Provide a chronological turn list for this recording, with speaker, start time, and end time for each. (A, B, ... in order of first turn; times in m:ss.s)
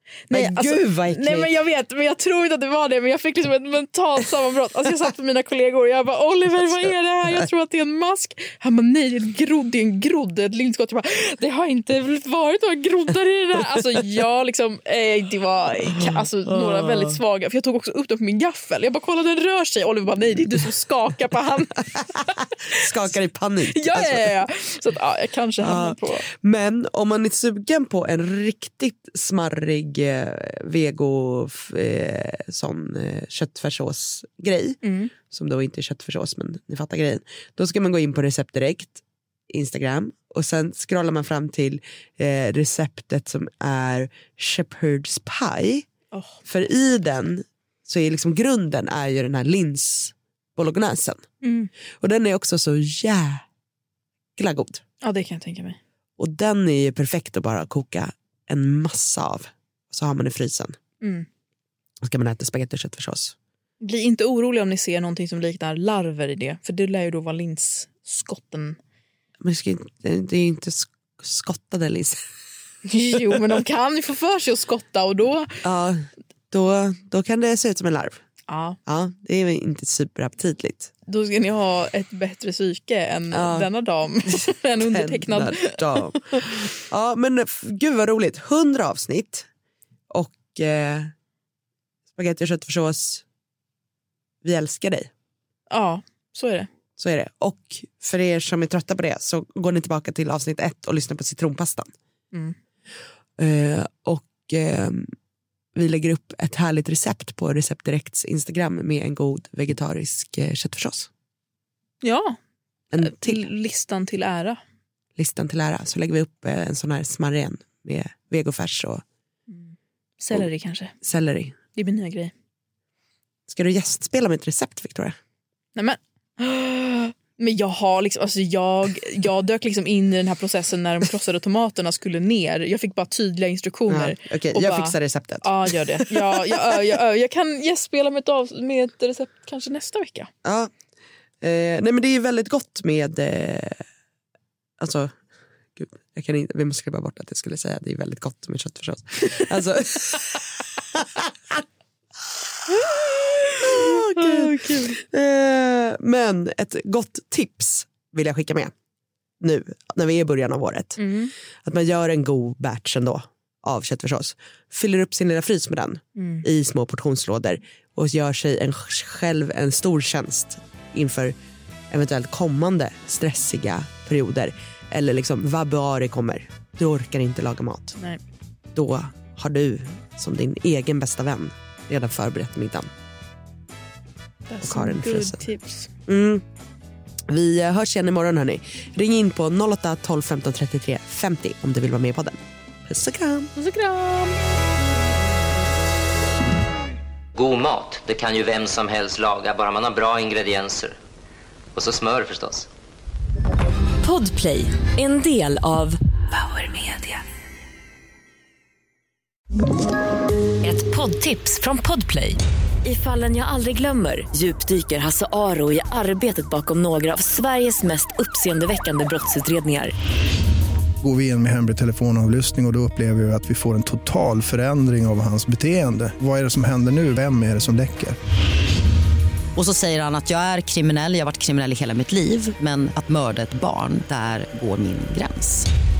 0:00.3-0:22.8 A
0:00.3-0:01.5 B
0:16.0-0:17.2 B
0:22.7-0:24.3 B
0:23.7-0:26.3 A
0:25.6-0:45.9 B
0:34.8-0:35.1 A
0:46.1-0:46.4 A
0:46.4-0:51.2 B
0:51.4-0:51.7 A
0:52.0-0:53.4 B
0:54.4-0:54.8 B
0:55.0-0:55.8 A
0:56.2-1:00.8 B
1:01.0-1:01.3 A
1:02.0-1:03.3 B
1:03.8-1:08.8 A
1:09.4-1:12.2 B
1:12.8-1:15.6 A
1:15.6-1:18.2 B
1:18.5-1:18.8 A
1:18.8-1:20.9 B
1:21.1-1:26.4 A
1:23.3-1:23.7 B
1:24.2-1:29.4 B
1:30.1-1:31.1 B
1:32.1-1:33.2 B
1:34.4-1:35.1 B
1:35.7-1:36.7 A
1:37.0-1:41.9 B
1:43.4-1:45.1 B
1:45.8-1:51.1 B
1:52.0-1:52.4 A
1:52.9-1:53.4 B
1:53.0-1:54.6 A
1:55.2-1:59.0 B
1:59.5-2:00.9 A
2:01.0-2:01.5 B
2:01.7-2:02.3 A
2:03.5-2:05.1 B
2:05.8-2:20.3 A
2:13.9-2:16.8 B
2:20.4-2:20.7 B
2:21.4-2:23.8 B
2:24.8-2:25.1 B
2:25.8-2:30.4 B
2:30.9-2:31.6 B
2:32.8-2:38.7 B
2:34.2-2:34.5 A
2:39.4-2:41.1 B
2:41.0-2:41.3 A
2:41.6-2:51.4 B
2:46.2-2:46.4 A
2:51.9-2:58.0 B
2:58.7-3:02.9 B
3:04.5-3:05.9 A
3:04.6-3:05.4 B
3:06.1-3:06.4 B
3:07.3-3:13.5 B
3:13.5-3:14.5 A
3:17.4-3:20.9 C
3:21.7-3:22.7 C
3:24.0-3:27.2 D
3:30.6-3:39.9 D
3:41.0-3:48.2 E
3:49.6-3:55.7 F